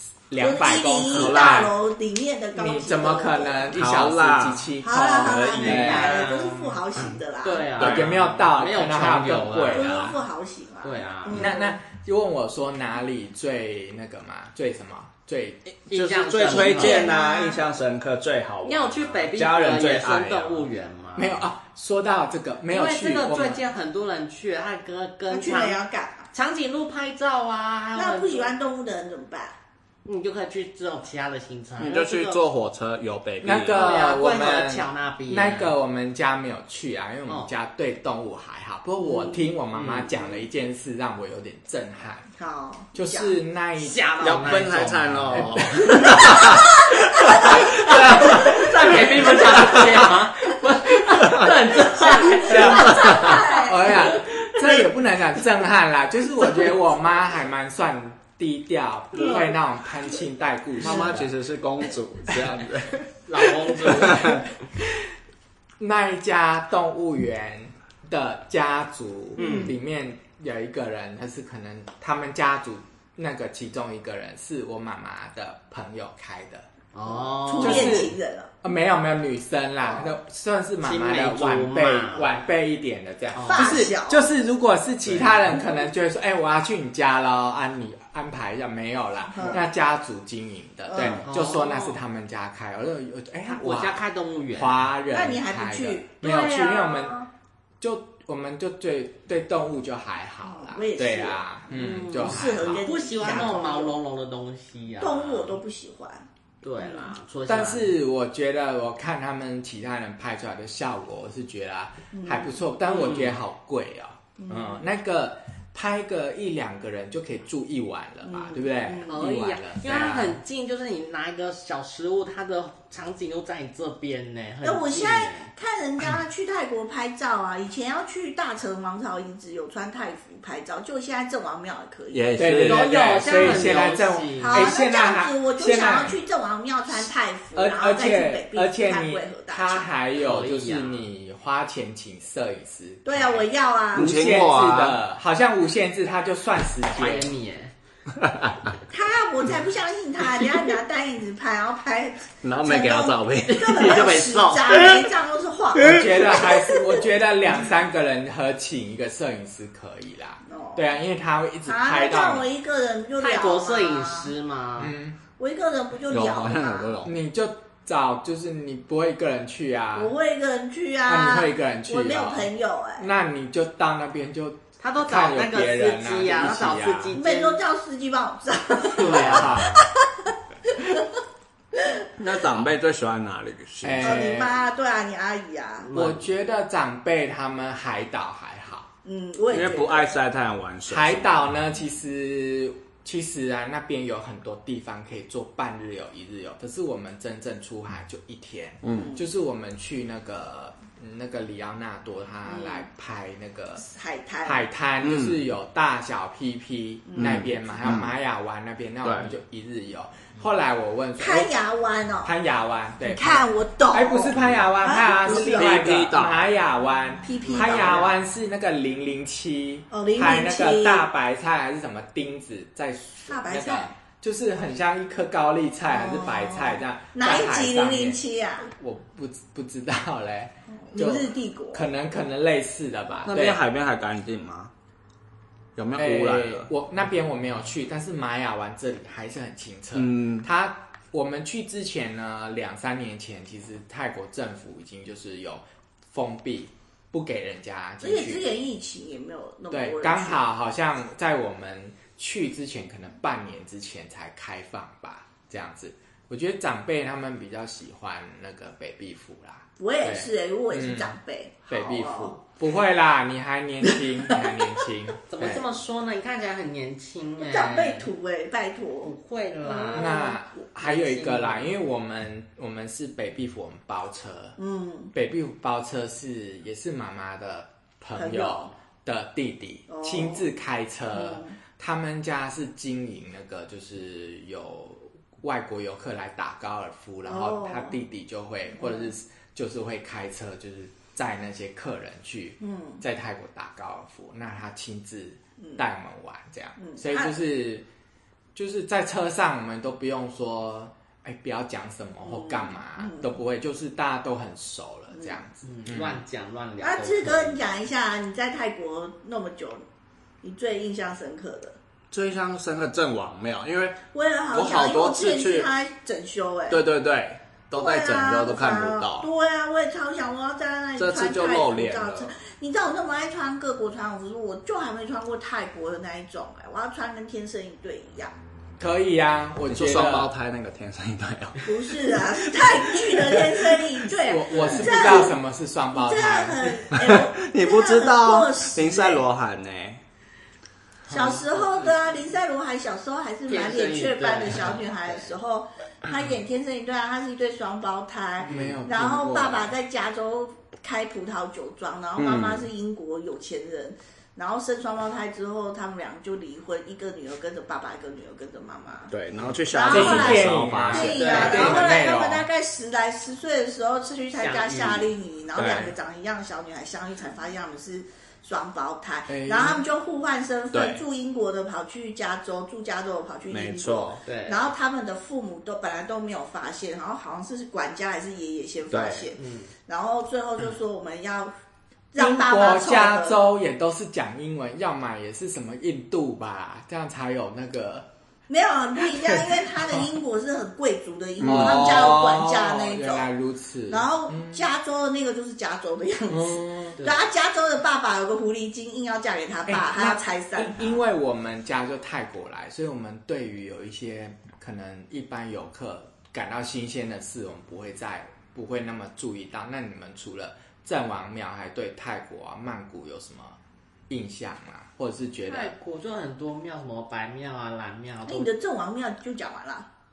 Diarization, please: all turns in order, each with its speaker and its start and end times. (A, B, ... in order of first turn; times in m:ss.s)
0:00.3-0:01.7 A
0:00.4-0:03.8 B
0:01.1-0:01.7 C
0:02.5-0:06.2 A
0:03.7-0:06.1 C
0:04.8-0:07.7 B
0:05.6-0:10.1 D
0:07.8-0:08.1 C
0:07.8-0:10.2 A
0:09.7-0:11.8 B
0:10.8-0:11.5 D
0:11.3-0:15.6 A
0:15.7-0:20.7 C
0:15.9-0:17.1 D
0:16.4-0:17.6 B
0:18.6-0:21.4 D
0:21.2-0:23.6 A
0:22.7-0:25.8 D
0:25.3-0:26.3 B
0:26.3-0:28.5 D
0:27.9-0:29.6 B
0:30.0-0:32.4 D
0:31.8-0:33.8 C
0:33.4-0:42.3 A
0:33.7-0:35.7 D
0:39.0-0:39.4 B
0:39.7-0:40.1 D
0:42.4-0:43.4 B
0:42.9-0:46.6 A
0:43.8-0:46.5 D
0:44.2-0:49.9 C
0:47.3-0:53.7 D
0:51.2-0:51.5 C
0:52.4-1:01.3 A
0:52.8-0:53.8 B
1:00.8-1:03.1 C
1:03.2-1:04.4 D
1:03.6-1:04.4 C
1:04.8-1:05.1 A
1:05.8-1:16.7 A
1:09.4-1:09.7 B
1:09.4-1:09.7 D
1:16.9-1:18.1 D
1:17.4-1:18.5 B
1:17.6-1:37.2 A
1:19.8-1:20.1 B
1:20.8-1:22.4 D
1:23.3-1:23.8 D
1:23.5-1:24.3 B
1:25.5-1:25.8 B
1:29.3-1:29.6 B
1:30.9-1:31.2 B
1:31.0-1:32.0 D
1:33.5-1:34.8 D
1:35.1-1:37.1 B
1:37.8-1:42.8 A
1:40.4-1:44.0 B
1:41.7-1:45.6 D
1:45.0-1:46.2 B
1:46.6-1:47.9 D
1:46.8-1:47.1 B
1:47.5-2:00.4 A
1:52.1-1:52.6 B
1:52.9-1:53.3 D
1:54.4-1:54.8 B
1:58.2-1:59.2 B
1:59.0-2:05.5 D
2:04.6-2:12.3 B
2:12.1-2:13.7 C
2:12.4-2:16.2 A
2:12.6-2:14.7 D
2:14.4-2:19.9 B
2:17.5-2:27.3 A
2:20.2-2:21.0 D
2:23.0-2:24.1 B
2:23.9-2:25.0 C
2:26.9-2:27.7 D
2:28.2-2:28.5 C
2:28.9-2:36.9 B
2:32.4-2:34.3 C
2:33.4-2:35.0 D
2:35.8-2:42.5 A
2:40.4-2:40.8 B
2:41.6-2:44.3 B
2:43.2-2:44.9 D
2:44.8-2:45.2 A
2:45.4-2:47.0 B
2:46.1-2:47.1 C
2:47.0-2:50.1 A
2:49.9-2:53.1 B
2:51.1-2:57.1 A
2:54.8-2:57.6 D
2:57.1-3:01.2 B
2:59.0-2:59.7 D
2:59.0-2:59.8 A
3:01.7-3:02.0 B
3:02.2-3:04.3 C
3:03.8-3:04.5 A
3:04.0-3:05.9 B
3:05.8-3:06.2 D
3:05.9-3:08.9 A
3:09.0-3:10.1 B
3:09.5-3:11.4 C
3:10.9-3:23.9 A
3:18.8-3:19.1 C
3:18.9-3:19.2 B
3:22.4-3:22.9 B
3:23.8-3:24.7 B
3:24.4-3:31.5 A
3:25.0-3:25.4 C
3:27.1-3:27.5 B
3:27.2-3:28.1 C
3:29.0-3:29.3 C
3:31.2-3:32.3 B
3:32.2-3:53.6 A
3:33.0-3:35.9 B
3:35.3-3:36.4 C
3:37.2-3:38.1 B
3:39.9-3:41.1 B
3:43.3-3:43.9 B
3:45.9-3:48.7 B
3:50.9-3:51.9 B
3:53.2-3:54.7 C
3:55.8-3:56.7 C
3:56.0-4:08.4 A
3:59.9-4:00.5 C
4:08.0-4:10.4 B
4:09.7-4:21.1 A
4:19.8-4:22.4 B
4:21.7-4:25.6 A
4:25.3-4:28.1 D
4:27.4-4:30.4 B
4:29.0-4:30.2 D
4:29.9-4:34.6 A
4:30.8-4:31.7 D
4:34.6-4:35.1 B
4:35.1-4:57.9 A
4:38.1-4:38.7 B
4:39.9-4:40.5 B
4:41.1-4:41.5 B
4:47.2-4:48.0 B
4:48.8-4:49.1 B
4:52.6-4:53.0 B
4:56.8-4:57.3 B
4:58.5-5:06.2 A
5:02.2-5:03.3 B
5:05.1-5:05.4 B
5:05.6-5:07.6 D
5:06.8-5:09.8 B
5:10.4-5:11.8 B
5:12.1-5:14.0 C
5:14.1-5:16.8 B
5:14.5-5:15.7 C
5:16.7-5:19.3 C
5:17.7-5:28.3 B
5:21.0-5:22.3 C
5:28.8-5:30.3 A
5:29.7-5:33.9 C
5:31.6-5:35.4 B
5:34.2-5:36.8 A
5:34.5-5:35.0 D
5:35.9-5:39.2 B
5:36.9-5:40.0 C
5:41.1-5:59.1 B
5:41.1-5:41.4 A
5:43.5-5:45.3 D
5:48.4-5:48.8 D
5:48.4-5:49.7 A
5:52.2-5:52.7 C
5:59.1-6:01.8 C
5:59.7-6:21.5 B
5:59.8-6:02.5 A
6:00.9-6:01.9 D
6:04.4-6:05.1 D
6:05.5-6:05.9 C
6:09.3-6:09.8 A
6:10.7-6:11.0 C
6:13.5-6:14.2 C
6:14.2-6:14.6 D
6:18.9-6:19.3 C
6:19.4-6:19.7 D
6:22.1-6:23.4 B
6:22.2-6:28.1 A
6:28.5-6:33.3 B
6:31.4-6:34.7 A
6:31.5-6:31.8 C
6:33.9-6:41.0 B
6:36.3-6:37.0 A
6:39.7-6:53.6 A
6:54.1-6:55.7 A
6:55.4-6:58.5 D
6:58.2-6:59.9 B